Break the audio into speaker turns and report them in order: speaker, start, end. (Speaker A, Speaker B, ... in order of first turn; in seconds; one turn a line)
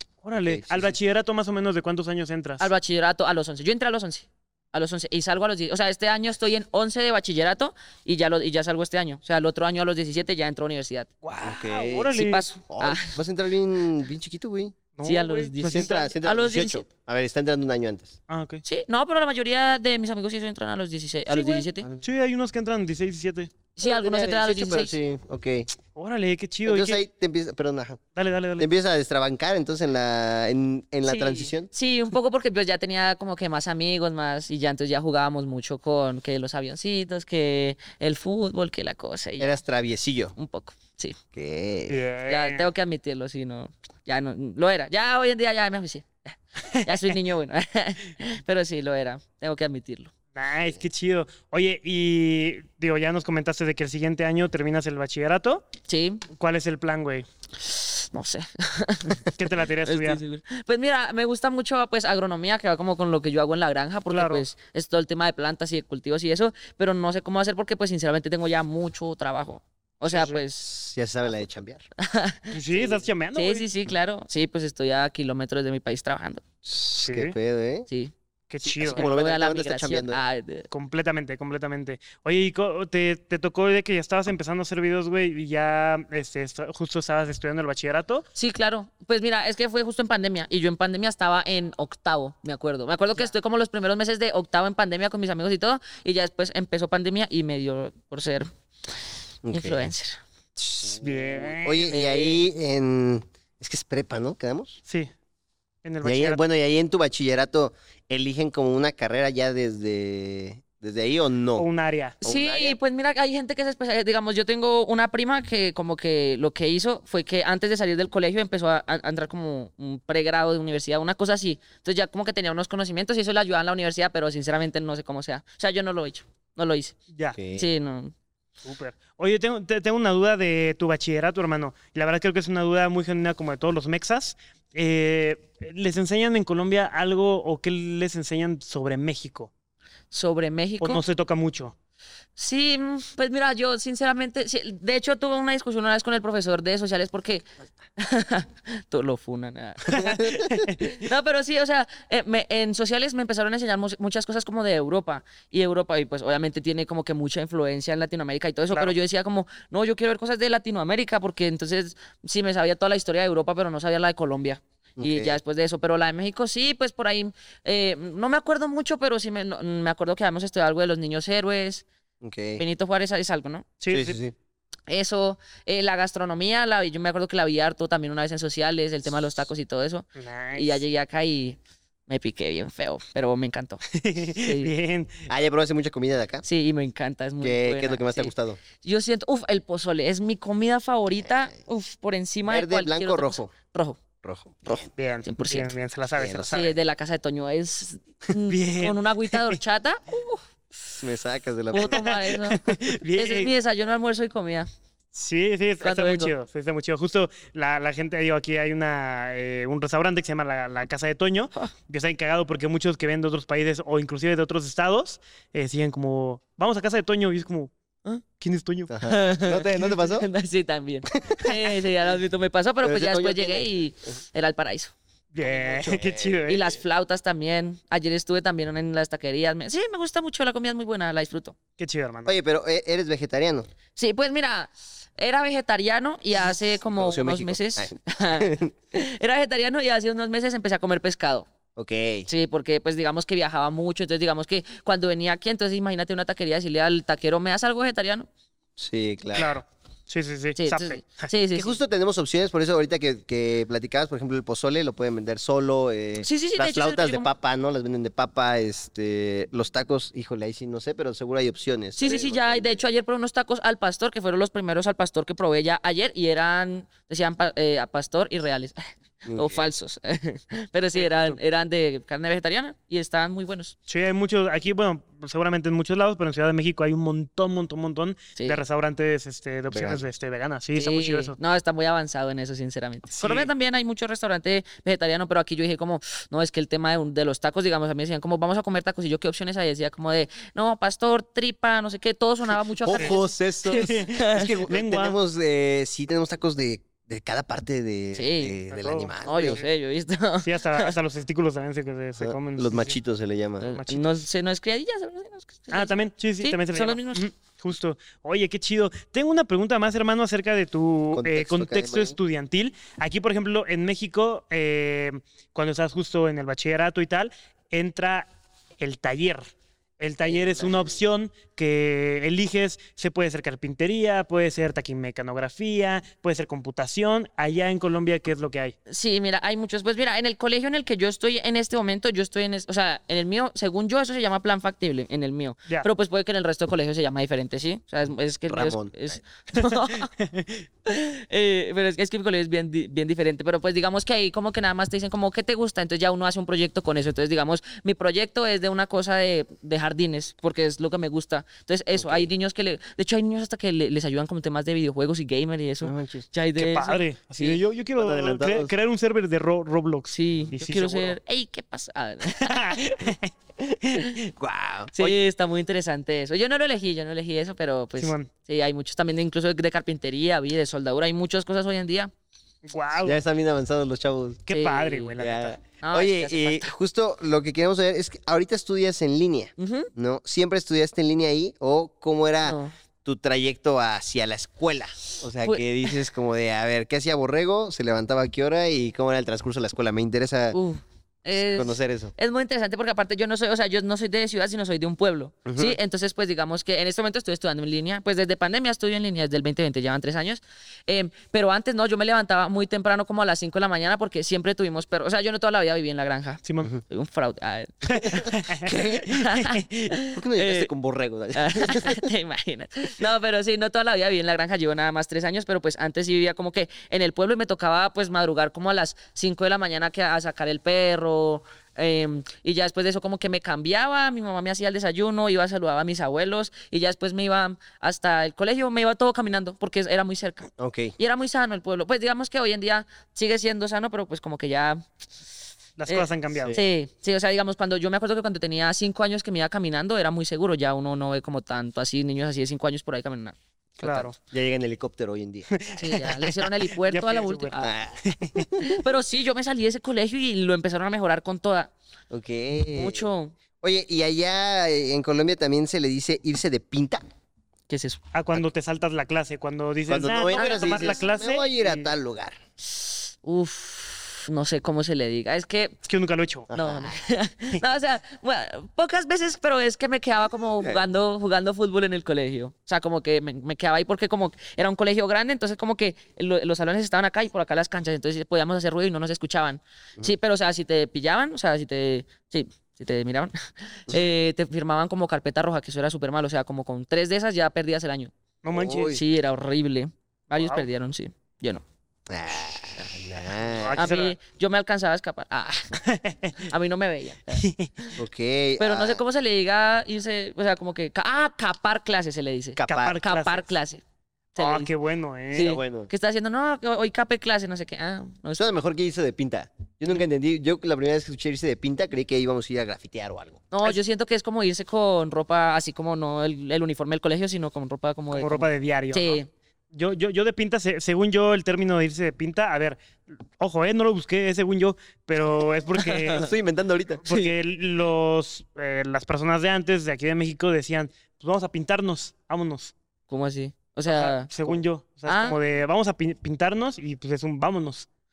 Speaker A: 0.2-2.7
Speaker B: 0.4-1.0
Speaker C: 2.6-11.1
Speaker A: 11.2-12.5
Speaker B: 11.4-12.1
Speaker C: 12.1-13.2
Speaker B: 12.7-14.8
Speaker A: 15.0-16.1
Speaker C: 15.0-16.8
Speaker B: 15.6-18.2
Speaker A: 18.3-18.6
Speaker C: 18.6-21.9
Speaker A: 21.3-23.5
Speaker C: 23.8-25.0
Speaker B: 23.8-25.7
Speaker A: 25.9-27.0
Speaker B: 26.6-28.0
Speaker A: 28.2-28.7
Speaker B: 28.6-31.7
Speaker C: 31.1-39.6
Speaker B: 39.4-40.3
Speaker C: 40.4-41.2
Speaker B: 41.3-42.0
Speaker A: 41.9-42.7
Speaker C: 42.3-50.1
Speaker A: 46.7-47.1
Speaker A: 50.3-55.6
Speaker C: 55.9-56.2
Speaker A: 56.3-57.3
Speaker C: 57.6-59.3
Speaker A: 59.2-60.2
Speaker C: 59.8-70.7
Speaker A: 64.1-64.4
Speaker A: 70.1-70.4
Speaker B: 70.6-71.9
Speaker C: 72.0-72.5
Speaker A: 72.5-73.7
Speaker C: 73.3-76.4
Speaker B: 76.7-77.9
Speaker A: 77.0-77.4
Speaker A: 78.5-79.0
Speaker B: 78.7-80.2
Speaker C: 78.8-80.7
Speaker A: 80.7-88.2
Speaker C: 88.3-98.5
Speaker B: 99.5-99.9
Speaker C: 99.5-100.2
Speaker B: 100.6-104.8
Speaker A: 100.9-102.2
Speaker C: 101.9-102.3
Speaker A: 105.8-106.4
Speaker B: 106.0-111.7
Speaker A: 111.6-112.2
Speaker B: 112.2-112.8
Speaker C: 112.2-127.0
Speaker A: 127.1-127.4
Speaker B: 127.4-127.7
Speaker C: 127.5-128.1
Speaker A: 128.6-139.5
Speaker C: 140.1-141.0
Speaker A: 140.8-141.7
Speaker C: 142.4-147.5
Speaker C: 148.0-171.9
Speaker B: 149.9-150.6
Speaker A: 150.3-150.9
Speaker B: 165.0-165.4
Speaker B: 172.2-172.6
Speaker C: 172.6-173.7
Speaker A: 173.8-174.2
Speaker B: 173.9-174.3
Speaker C: 174.9-183.8
Speaker A: 180.2-180.8
Speaker A: 183.9-185.3
Speaker C: 184.4-184.7
Speaker B: 185.3-186.4
Speaker C: 186.4-194.0
Speaker B: 187.4-188.6
Speaker B: 192.5-193.5
Speaker B: 194.2-194.9
Speaker A: 195.0-196.7
Speaker C: 195.2-195.7
Speaker B: 196.2-196.7
Speaker C: 196.5-200.4
Speaker A: 198.5-199.6
Speaker B: 201.0-202.1
Speaker C: 201.7-204.7
Speaker A: 201.9-203.5
Speaker A: 205.1-217.7
Speaker C: 205.8-206.3
Speaker A: 218.2-218.9
Speaker B: 218.9-220.3
Speaker C: 219.1-224.9
Speaker B: 221.1-221.6
Speaker B: 222.8-223.7
Speaker A: 225.3-226.8
Speaker B: 225.4-226.4
Speaker C: 226.5-231.6
Speaker A: 231.8-232.4
Speaker B: 232.3-233.7
Speaker C: 234.0-241.5
Speaker B: 236.8-238.7
Speaker B: 241.8-242.3
Speaker C: 242.3-248.3
Speaker B: 248.8-249.5
Speaker A: 249.3-251.3
Speaker C: 250.6-251.8
Speaker B: 251.6-262.8
Speaker C: 256.2-257.3
Speaker C: 262.0-273.7
Speaker B: 269.2-269.7
Speaker A: 271.0-271.4
Speaker A: 273.9-281.4
Speaker B: 279.7-280.0
Speaker C: 280.8-294.5
Speaker A: 283.1-283.5
Speaker B: 292.8-299.6
Speaker A: 293.7-295.1
Speaker C: 298.1-298.6
Speaker A: 298.7-299.6
Speaker C: 299.2-300.9
Speaker A: 300.4-303.0
Speaker B: 302.2-303.7
Speaker C: 303.6-307.3
Speaker A: 303.7-304.0
Speaker A: 305.7-318.3
Speaker B: 311.1-312.2
Speaker A: 318.8-319.4
Speaker A: 320.0-328.8
Speaker B: 320.3-321.0
Speaker C: 328.9-340.1
Speaker B: 338.5-339.1
Speaker C: 340.9-357.6
Speaker B: 351.9-352.3
Speaker B: 355.8-356.2
Speaker A: 356.6-361.2
Speaker B: 358.0-358.7
Speaker C: 360.1-362.8
Speaker A: 362.3-363.3
Speaker C: 363.9-364.2
Speaker B: 364.4-365.2
Speaker C: 364.9-372.1
Speaker A: 368.0-368.3
Speaker A: 372.6-373.2
Speaker B: 373.0-374.4
Speaker A: 374.5-375.6
Speaker C: 374.5-375.1
Speaker B: 375.2-390.6
Speaker C: 375.8-376.7
Speaker C: 379.6-379.9
Speaker C: 382.4-382.7
Speaker C: 385.4-385.9
Speaker C: 390.5-410.7
Speaker B: 391.4-392.1
Speaker B: 395.5-395.8
Speaker A: 406.4-406.7
Speaker A: 407.9-409.6
Speaker B: 408.7-409.0
Speaker B: 410.1-412.0
Speaker C: 411.4-434.8
Speaker B: 430.6-431.0
Speaker A: 435.8-436.6
Speaker C: 435.9-443.4
Speaker B: 436.4-436.6
Speaker A: 443.8-444.2
Speaker B: 443.8-446.0
Speaker A: 445.5-447.6
Speaker C: 445.8-447.7
Speaker B: 447.6-448.6
Speaker C: 448.6-451.7
Speaker B: 452.1-453.1
Speaker C: 452.7-453.4
Speaker B: 453.6-457.0
Speaker C: 457.7-458.0
Speaker A: 458.1-461.9
Speaker B: 459.9-462.4
Speaker C: 460.3-461.0
Speaker C: 463.2-465.8
Speaker A: 465.8-466.5
Speaker B: 466.5-467.0
Speaker C: 466.5-488.1
Speaker A: 488.4-489.0
Speaker B: 488.5-489.0
Speaker C: 488.9-491.6
Speaker A: 490.4-490.7
Speaker B: 492.1-493.9
Speaker A: 493.6-494.2
Speaker C: 493.8-495.8
Speaker A: 495.8-496.4
Speaker C: 496.4-497.9
Speaker A: 497.4-497.7
Speaker B: 498.0-499.0
Speaker C: 498.6-503.8
Speaker B: 502.6-503.0
Speaker A: 502.7-503.5
Speaker C: 504.4-504.7
Speaker A: 504.4-505.6
Speaker C: 505.3-508.5
Speaker B: 505.4-505.9
Speaker B: 508.4-513.5
Speaker C: 513.5-519.3
Speaker A: 518.1-519.2
Speaker A: 519.7-522.8
Speaker A: 523.4-526.3
Speaker C: 525.8-526.2
Speaker B: 526.1-527.0
Speaker A: 527.0-532.7
Speaker C: 533.1-534.3
Speaker A: 533.9-537.9
Speaker C: 535.1-535.4